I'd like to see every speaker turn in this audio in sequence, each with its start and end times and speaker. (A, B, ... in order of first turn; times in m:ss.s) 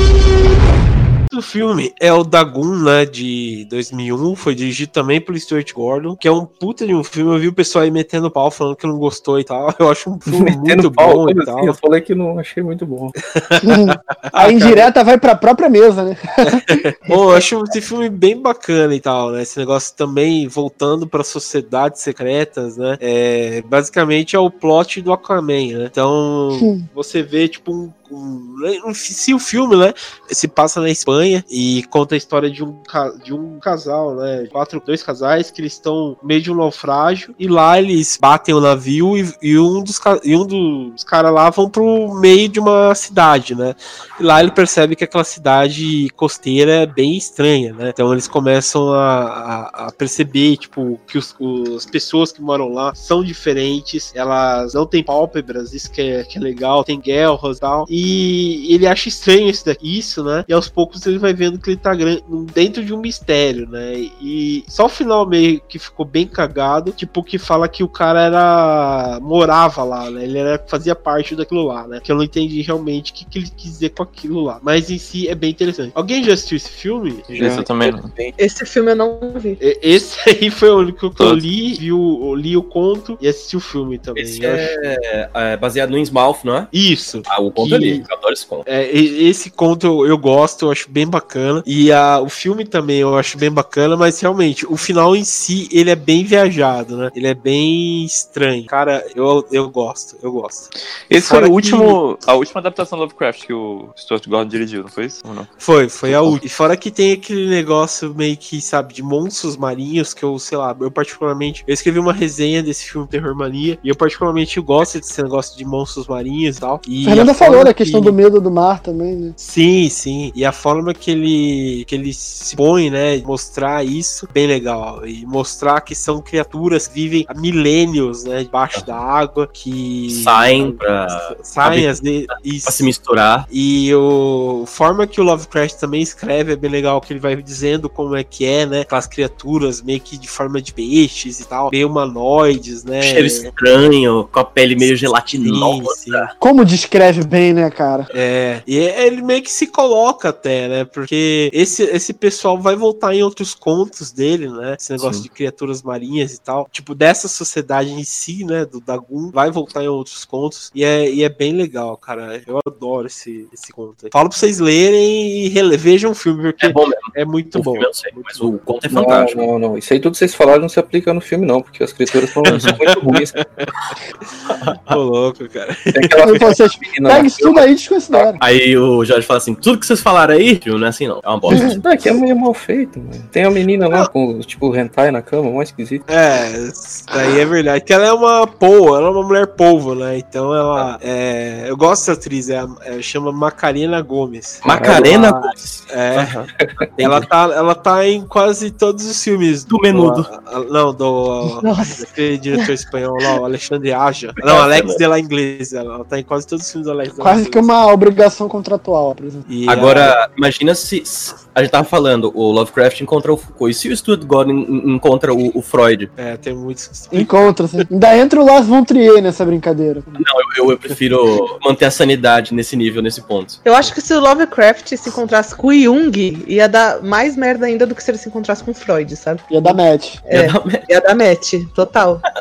0:01.3-0:11.8 A
0:10.3-0:13.2 B
0:13.2-0:14.9 A
0:13.6-0:16.8 C
0:16.4-1:17.3 A
0:26.6-0:26.9 C
1:17.3-1:18.4 B
1:17.4-1:18.1 D
1:18.4-1:19.6 E
1:19.6-1:24.7 A
1:24.2-1:26.7 F
1:26.7-1:28.0 A
1:27.3-1:28.7 F
1:28.7-1:42.0 A
1:41.1-1:46.4 D
1:45.6-1:58.2 A
1:57.0-1:59.4 C
1:59.4-2:12.9 A
2:10.1-2:11.9 F
2:12.6-2:13.5 F
2:13.5-2:23.5 A
2:23.0-2:26.3 F
2:24.8-2:26.3 A
2:26.4-2:28.1 C
2:28.1-2:48.6 A
2:35.0-2:35.3 F
2:46.6-2:49.4 F
2:48.9-2:53.4 B
2:52.4-2:56.5 A
2:55.9-2:57.7 B
2:56.2-2:58.4 C
2:58.1-3:01.8 F
3:01.5-3:06.0 B
3:06.1-3:16.4 A
3:14.6-3:16.5 F
3:14.7-3:15.1 B
3:16.5-3:16.9 B
3:17.0-3:27.7 A
3:19.7-3:20.3 F
3:21.6-3:22.0 E
3:24.4-3:25.0 F
3:27.2-3:29.5 C
3:29.5-3:30.2 A
3:29.7-3:36.1 F
3:36.2-3:37.6 A
3:37.1-3:40.2 C
3:40.2-3:43.6 F
3:43.6-3:52.2 E
3:49.5-3:50.2 C
3:50.3-3:50.8 F